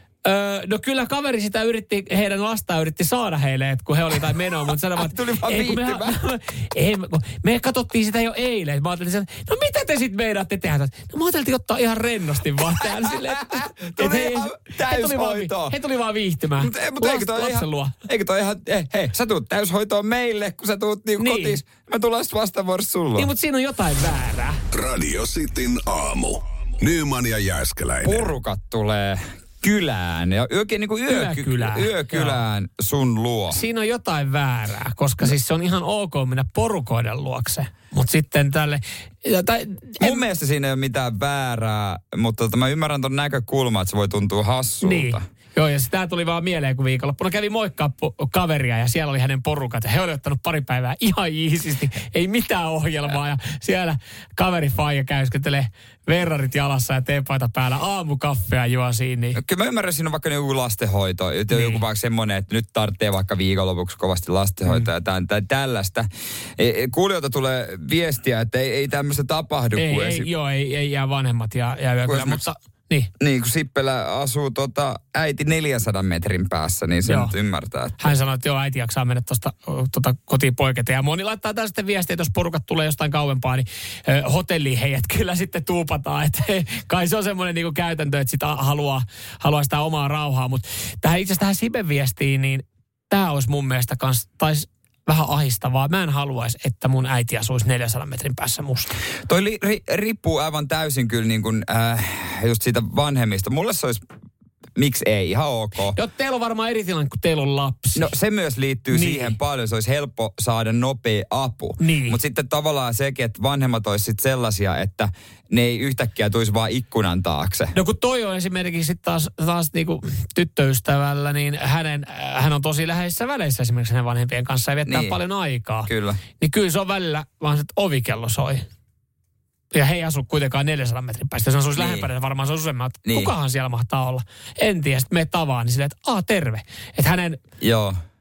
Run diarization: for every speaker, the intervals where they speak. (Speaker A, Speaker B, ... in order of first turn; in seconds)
Speaker A: 0.2-17.9, 21.2-21.6, 23.2-24.6, 31.1-32.4, 33.5-40.3, 44.8-59.4, 61.5-61.8, 69.8-73.1, 77.0-77.3, 78.0-99.0, 105.9-108.1, 108.9-109.3, 111.8-112.2, 117.7-128.7, 129.7-137.4
Speaker B: 4.9-6.2, 12.8-15.7, 16.6-23.3, 28.0-33.6, 40.0-45.2, 59.4-70.3, 72.0-72.4, 73.2-78.0, 99.2-104.0, 104.8-106.0, 108.0-117.7, 124.8-125.2, 125.8-126.2, 131.8-132.1, 133.1-133.3, 137.6-137.9
Speaker C: 24.7-28.3